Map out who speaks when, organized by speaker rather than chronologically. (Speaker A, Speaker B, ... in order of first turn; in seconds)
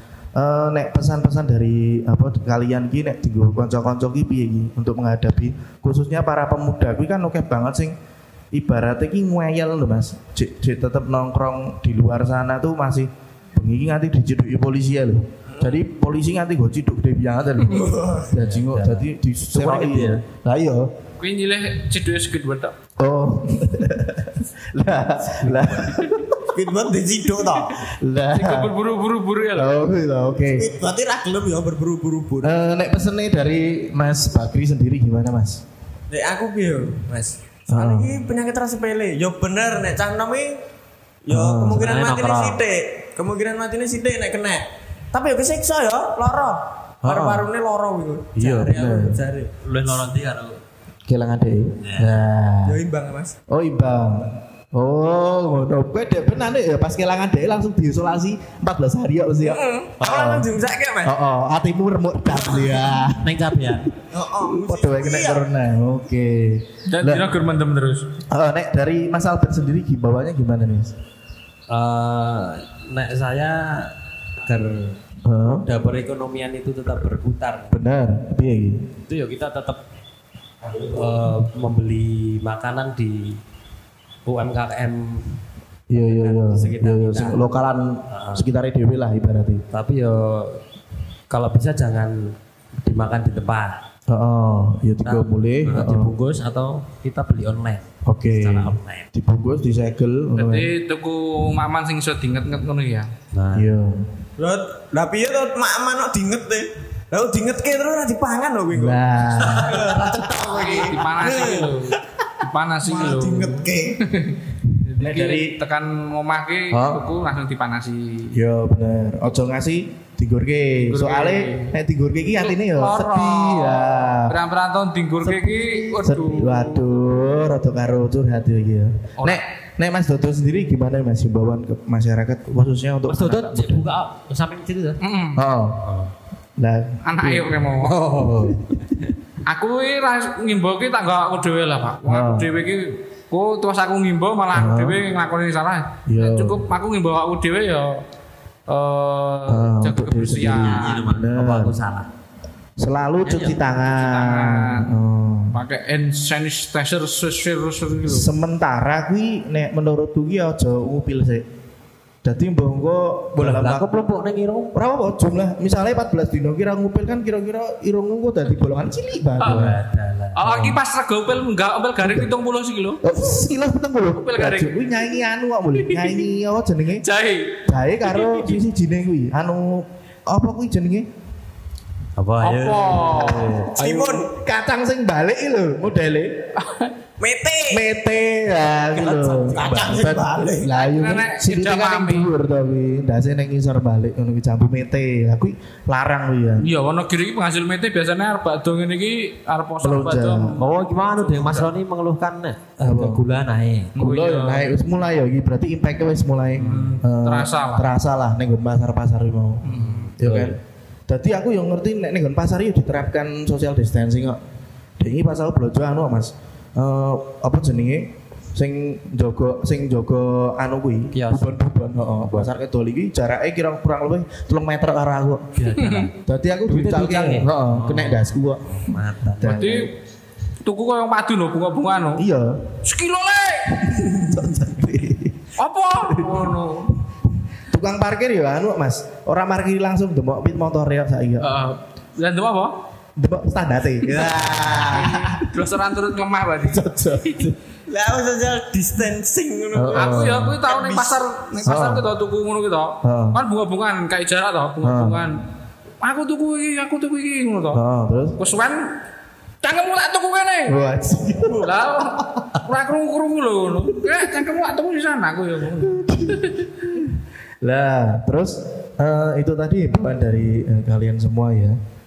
Speaker A: 0.3-8.0, 8.5-20.9, 23.0-26.6, 27.9-28.7, 29.5-30.7, 32.4-35.6, 37.7-38.2, 41.3-41.9, 47.0-47.5, 48.4-49.2, 51.1-52.8, 53.5-60.5, 61.0-67.3, 68.3-70.9, 75.2-75.7, 77.7-78.9, 85.9-89.6, 94.1-96.1, 98.0-100.7, 103.5-104.0, 108.7-110.0, 115.0-115.5, 116.7-117.1, 118.3-124.4, 126.0-133.9, 135.3-135.8, 136.6-138.8, 142.1-142.6, 144.5-145.0, 146.1-146.6, 149.5-151.8, 152.8-155.6, 158.1-161.4, 162.2-164.0, 164.7-169.8, 172.0-172.3, 173.0-177.0, 177.7-181.1, 183.1-183.6, 184.3-186.4, 187.7-196.7, 199.8-200.6, 202.8-203.3, 204.0-209.7, 210.2-210.6, 211.1-214.4, 215.0-225.4, 226.2-229.9, 232.2-232.7, 233.8-235.5, 236.1-236.5, 237.7-241.5, 243.2-245.5, 246.6-247.6, 249.7-250.6, 251.7-252.1, 253.0-253.4, 254.8-255.2, 257.7-258.4, 260.6-261.7, 265.8-271.8
Speaker B: 17.7-18.3, 26.5-27.9, 30.4-32.5, 36.1-40.6, 41.2-48.7, 52.6-53.3, 59.4-61.2, 62.4-62.9, 64.1-65.4, 104.4-111.9, 112.8-114.0, 183.8-184.3, 187.2-187.8, 189.1-190.7, 244.3-244.9, 247.9-251.2
Speaker C: 18.3-20.2, 41.7-42.6, 48.4-50.6, 51.8-52.1, 63.2-63.9, 71.7-77.8, 79.1-79.8, 80.8-83.4, 84.2-85.3, 85.9-87.5, 88.1-88.5, 89.7-90.6, 91.3-93.8, 95.0-99.1, 103.3-103.7, 109.7-111.0, 125.2-126.0, 133.1-135.0, 137.8-138.8, 150.4-152.1, 153.2-153.6, 163.4-164.8, 169.4-170.8, 182.2-183.7, 189.0-190.1, 200.6-204.0, 206.6-207.0, 209.7-210.6, 221.1-221.7, 222.2-222.5, 225.5-226.1, 226.7-229.7
Speaker D: 21.2-22.7, 27.6-29.8, 66.9-68.1, 100.3-103.1, 110.5-118.3, 120.8-121.7, 122.4-126.8, 129.2-129.4, 135.0-135.5, 137.0-137.9, 139.5-148.0, 148.7-151.0, 153.9-154.9, 155.5-158.3, 169.4-169.7, 170.3-173.0, 174.1-175.2, 175.7-176.3, 176.9-178.6, 182.4-184.2, 186.6-186.9, 190.7-192.3, 196.6-201.7, 203.9-204.7, 206.6-207.9, 209.6-210.1, 225.8-226.1, 229.4-229.9, 230.6-232.2, 232.8-234.0, 235.6-236.9, 241.4-242.7, 244.8-247.3, 249.9-255.4, 256.0-257.8, 258.4-259.0, 259.6-260.8, 261.6-266.6